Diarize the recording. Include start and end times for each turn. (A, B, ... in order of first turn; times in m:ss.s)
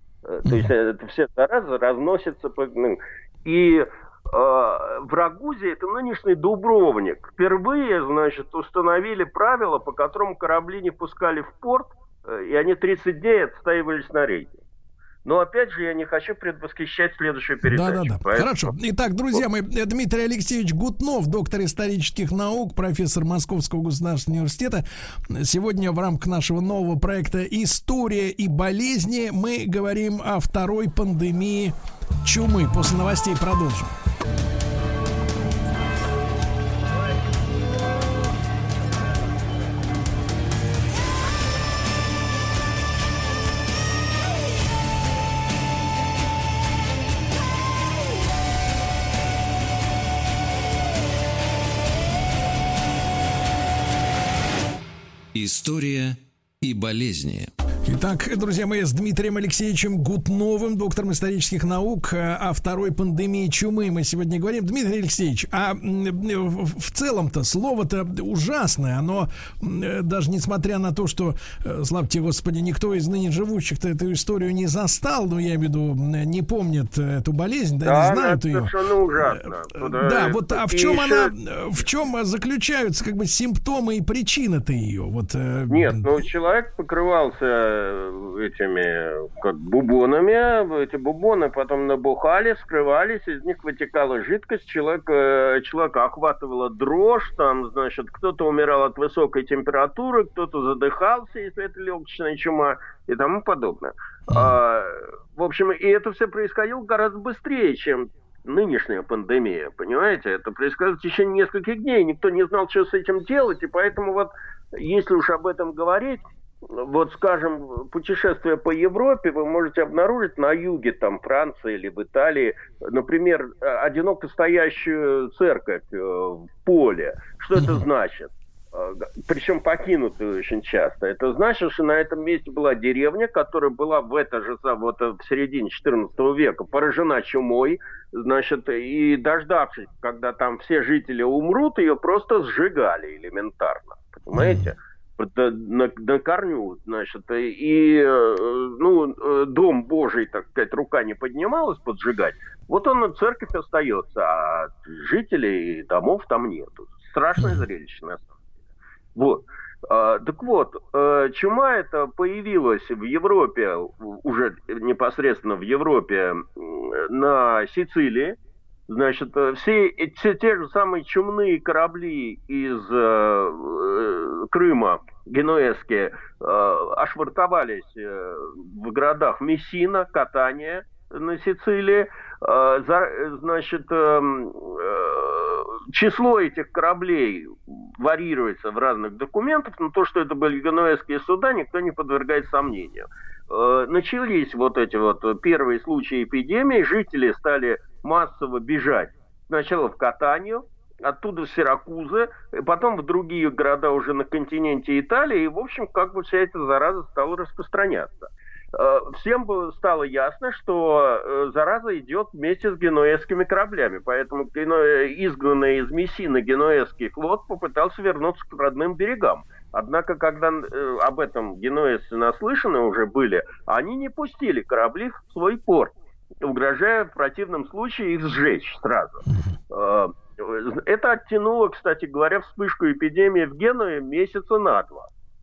0:00.2-0:14.6 A
0:00.4-0:00.7 B
0:15.2-0:18.7 A
0:17.6-0:33.9 B
0:55.3-0:57.5 C
0:57.8-1:18.7 B
1:17.8-1:21.3 A
1:19.4-1:26.1 B
1:25.7-2:38.3 A
1:44.3-1:44.5 B
2:07.5-2:07.8 B
2:24.3-2:24.6 B
2:39.1-3:55.1 A